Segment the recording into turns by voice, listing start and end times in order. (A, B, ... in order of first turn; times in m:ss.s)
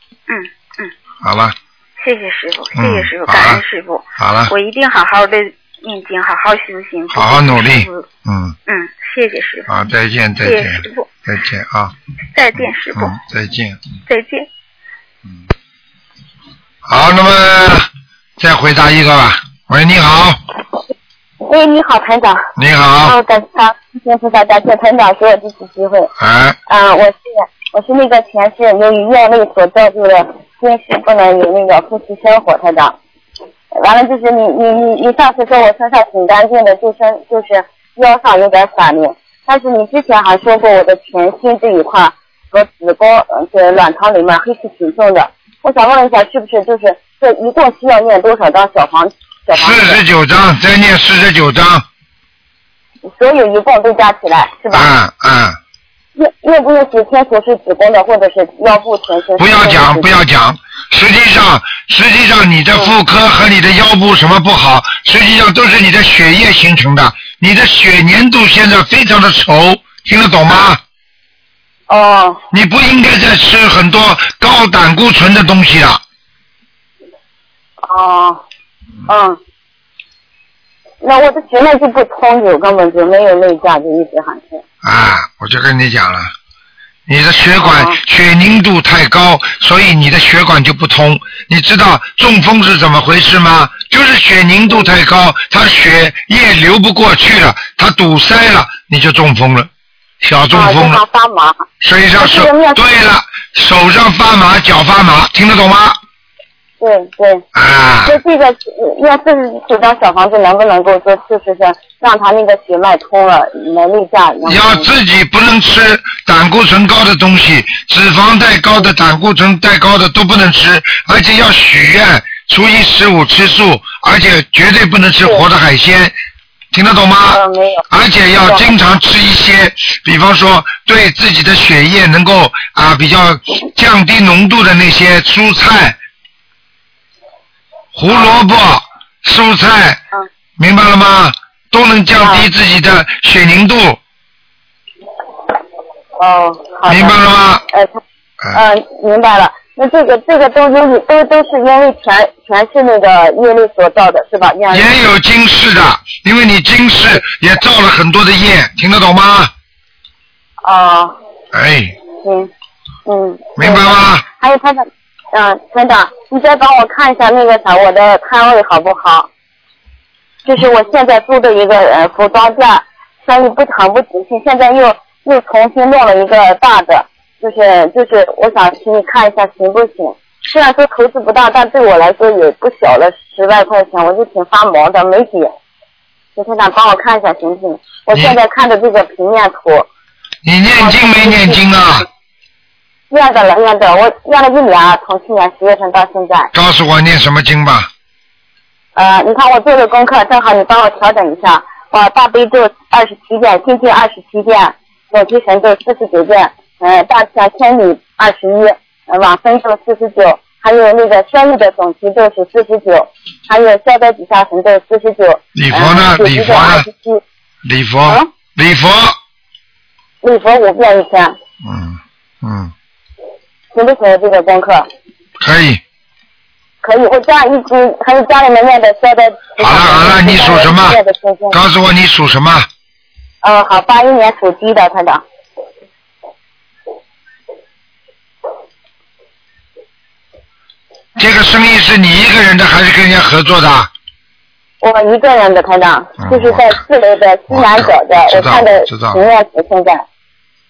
0:00.3-0:00.9 A
0:01.2-0:01.6 B
0:02.0-0:08.1 A
0:02.8-0:03.6 B
0:04.2-0:04.5 B
0:07.1-0:08.6 B
0:08.7-0:09.7 A
0:09.7-0:11.9 B
0:10.4-0:11.1 A
0:12.4-0:13.2 A
0:13.0-0:13.8 B
0:14.1-0:14.5 A
0:16.9-0:20.4 B
0:21.5-0:22.5 C
0:22.6-0:23.2 B
0:23.0-0:26.1 C
0:26.2-0:26.6 B
0:26.7-0:33.0 C
0:33.7-0:50.0 C
0:49.5-0:51.8 B
0:53.2-0:54.9 C
0:54.7-0:55.6 B
0:56.2-1:00.1 C
0:59.4-1:10.8 B
1:11.9-1:12.4 C
1:12.5-1:16.0 B
1:17.8-1:18.4 C
1:19.1-1:19.4 C
1:21.0-1:24.6 C
1:24.8-1:26.3 B
1:27.1-1:39.7 B
1:27.6-1:28.0 C
1:40.2-1:41.0 B
1:40.5-1:42.8 C
1:41.8-1:46.0 B
1:46.8-1:47.4 C
1:47.5-1:48.2 B
1:48.1-1:54.9 C
1:54.5-2:06.2 B
2:06.7-2:16.0 B
2:07.3-2:07.8 C
2:08.4-2:08.7 C
2:17.9-2:20.0 B
2:18.1-2:18.4 C
2:20.6-2:24.0 B
2:22.1-2:22.5 C
2:26.2-2:27.2 C
2:26.9-2:27.6 B
2:27.7-2:28.0 C
2:28.5-2:34.9 C
2:34.7-2:39.5 B
2:40.6-2:41.2 C
2:41.5-2:42.0 B
2:42.2-2:42.5 C
2:43.1-2:49.3 C
2:43.6-2:44.2 B
2:50.4-3:05.5 C
3:06.4-3:09.9 C
3:10.4-3:12.1 B
3:10.7-3:11.6 C
3:13.1-3:16.5 C
3:16.5-3:17.9 B
3:19.0-3:37.2 C
3:35.6-3:36.9 B
3:37.6-3:39.2 B
3:40.2-3:41.4 C
3:41.6-3:42.7 B
3:43.7-3:44.9 C
3:45.4-3:45.8 B
3:46.8-3:51.6 C
3:49.6-3:51.0 B
3:51.5-3:52.7 B
3:53.4-3:55.2 C
4:01.2-4:03.9 B
4:04.8-4:10.0 C
4:06.2-4:06.8 B
4:07.5-4:09.2 B